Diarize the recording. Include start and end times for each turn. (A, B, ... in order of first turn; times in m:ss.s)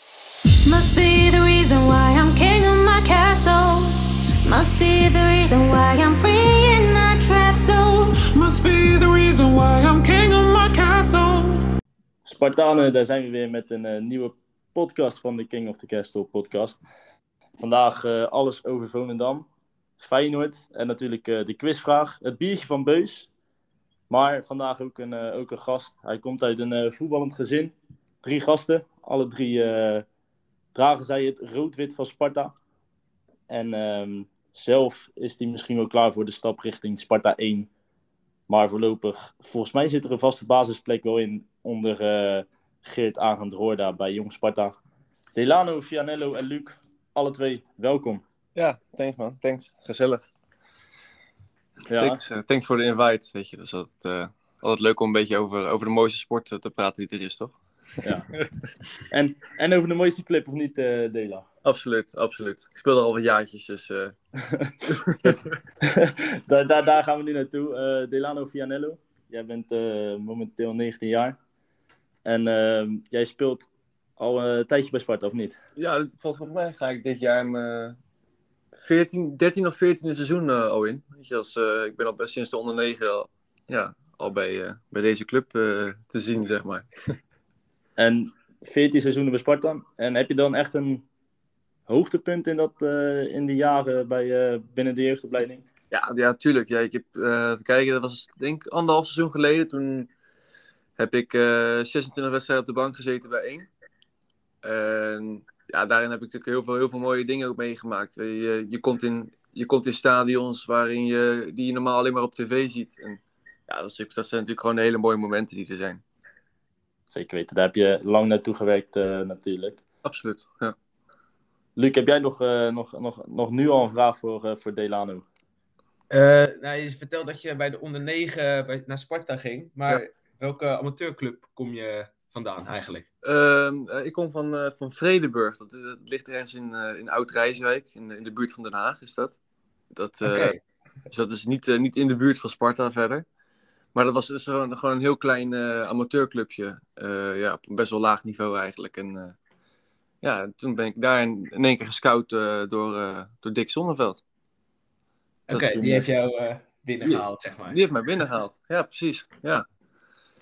0:00.7-0:03.9 A
0:04.4-0:08.1 A
0:08.3-0:11.6 B
0:12.2-0:16.8 C
0:17.6-0:19.5 C
0:20.0-0:23.3 C
0:24.1-0:30.0 C
0:30.7-0:32.5 C
0:33.5-0:37.7 C
0:38.5-0:44.8 C
0:45.3-0:48.2 C
0:48.5-0:50.2 D
0:51.9-0:52.2 C
0:52.0-0:57.5 D
0:58.0-0:58.3 C
0:59.1-1:01.5 C
1:01.6-1:04.1 D
1:04.4-1:04.8 C
1:04.9-1:05.4 D
1:05.8-1:11.4 C
1:12.2-1:13.7 C
1:14.2-1:15.6 C
1:15.8-1:18.0 D
1:18.8-1:27.1 D
1:28.0-1:31.0 C
1:31.9-1:35.6 C
1:35.9-1:40.1 D
1:41.0-1:43.7 D
1:44.6-1:56.0 D
1:57.1-1:59.8 C
2:00.0-2:00.7 D
2:01.8-2:05.2 C
2:06.1-2:13.1 E
2:13.2-2:19.4 D
2:19.9-2:20.6 D
2:20.2-2:20.6 E
2:21.1-2:23.2 D
2:23.9-2:29.4 D
2:30.2-2:34.2 D
2:35.5-2:37.8 E
2:35.5-2:36.0 C
2:37.0-2:39.6 D